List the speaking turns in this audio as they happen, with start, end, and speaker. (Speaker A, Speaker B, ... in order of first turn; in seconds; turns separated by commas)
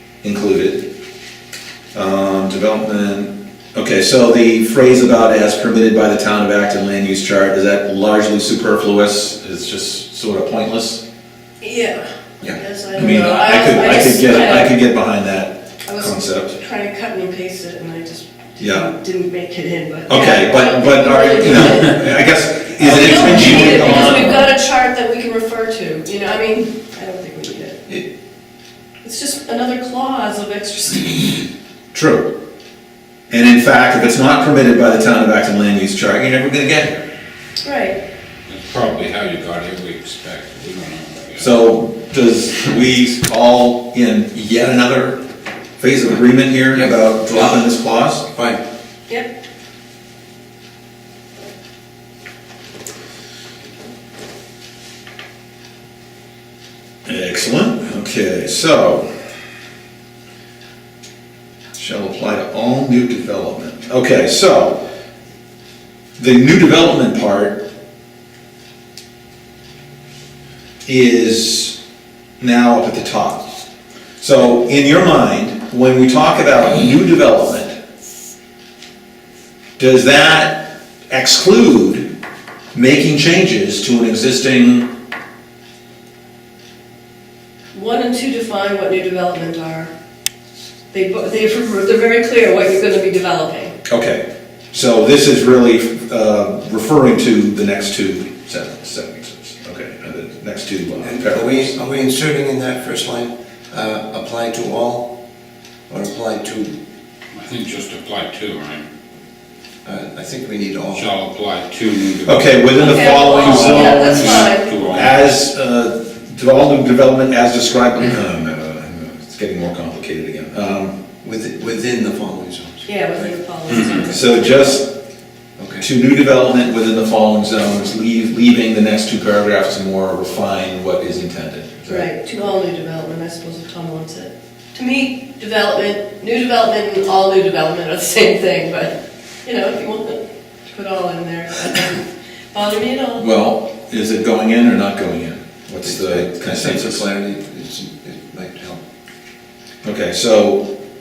Speaker A: 0.2-0.8, Speaker A: 1.9-11.0, Speaker B: 11.6-14.7, Speaker A: 12.9-16.6, Speaker B: 15.9-22.2, Speaker A: 18.6-18.9, Speaker A: 20.1-24.5, Speaker B: 22.8-27.8, Speaker C: 23.2-24.2, Speaker B: 29.0-31.4, Speaker A: 31.9-32.3, Speaker A: 33.3-37.0, Speaker B: 37.6-38.0, Speaker C: 38.5-41.5, Speaker A: 41.4-45.2, Speaker A: 45.8-48.3, Speaker D: 46.7-47.6, Speaker D: 48.3-48.6, Speaker A: 57.0-59.1, Speaker A: 61.7-64.8, Speaker A: 66.2-67.6, Speaker A: 70.8-71.8, Speaker A: 72.4-73.5, Speaker A: 74.2-77.8, Speaker A: 79.8-82.1, Speaker A: 82.7-84.9, Speaker B: 87.7-89.9, Speaker B: 90.9-93.7, Speaker A: 93.9-101.7, Speaker D: 101.0-105.1, Speaker D: 105.9-106.7, Speaker C: 107.3-108.9, Speaker D: 109.8-111.0, Speaker C: 110.9-115.2, Speaker A: 112.2-120.9, Speaker B: 112.8-114.7, Speaker D: 121.2-123.2, Speaker B: 122.8-124.8, Speaker A: 124.1-124.9, Speaker D: 125.6-125.8, Speaker A: 125.8-132.1, Speaker B: 131.8-143.3, Speaker A: 143.2-147.0, Speaker D: 145.8-148.8, Speaker A: 149.8-150.7